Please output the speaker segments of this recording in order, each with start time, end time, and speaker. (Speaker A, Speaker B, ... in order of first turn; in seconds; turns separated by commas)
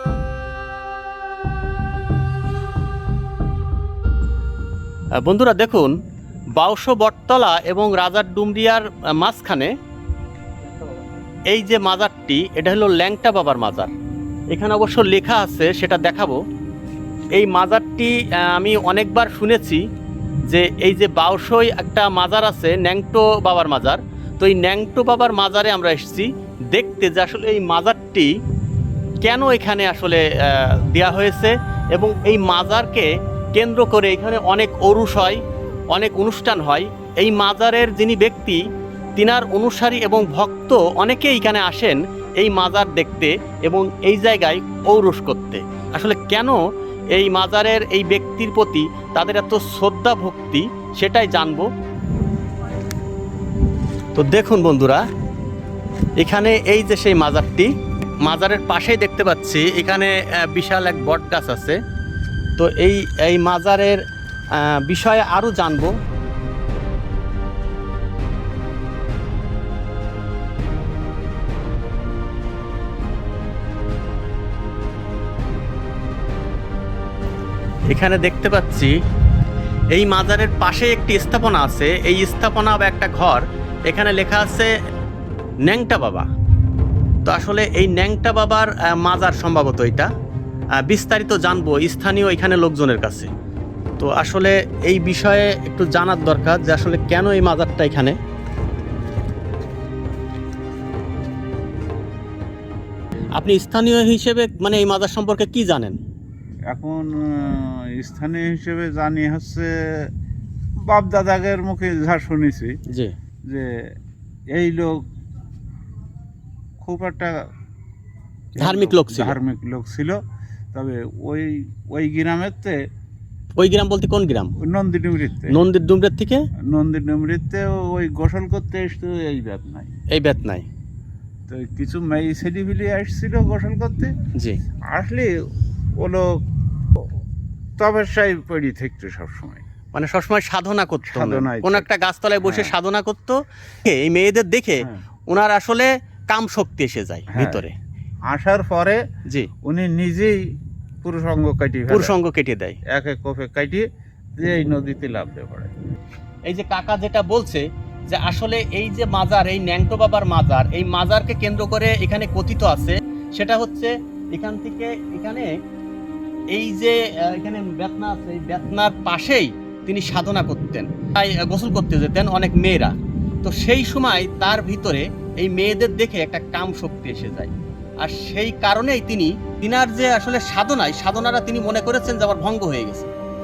Speaker A: 5.2-5.9, Speaker A: 6.6-9.7, Speaker A: 11.5-13.9, Speaker A: 14.5-16.4, Speaker A: 17.4-19.8, Speaker A: 20.5-28.3, Speaker A: 29.2-38.6, Speaker A: 39.2-46.6, Speaker A: 47.1-51.7, Speaker A: 54.1-55.0, Speaker A: 56.2-61.8, Speaker A: 62.6-64.0, Speaker A: 64.5-66.0, Speaker A: 77.9-78.9, Speaker A: 79.9-84.7, Speaker A: 85.7-86.3, Speaker A: 87.2-90.1, Speaker A: 90.8-93.3, Speaker A: 94.0-98.2, Speaker A: 103.3-106.0, Speaker B: 106.7-110.1, Speaker B: 110.9-112.8, Speaker A: 112.9-113.1, Speaker B: 114.5-115.1, Speaker B: 116.8-117.3, Speaker B: 118.6-120.2, Speaker A: 118.6-119.4, Speaker B: 120.7-122.8, Speaker A: 123.6-124.5, Speaker B: 124.6-125.6, Speaker A: 125.5-126.4, Speaker B: 126.7-129.9, Speaker A: 130.1-130.7, Speaker B: 131.5-134.1, Speaker B: 134.9-135.3, Speaker B: 136.0-136.4, Speaker B: 137.8-139.7, Speaker A: 139.9-147.7, Speaker B: 141.1-141.9, Speaker B: 142.4-142.7, Speaker B: 147.3-147.6, Speaker B: 148.3-149.0, Speaker B: 149.6-150.5, Speaker B: 151.0-152.2, Speaker A: 151.9-152.8, Speaker B: 152.9-153.9, Speaker B: 154.4-155.7, Speaker A: 156.5-165.5, Speaker A: 166.5-183.1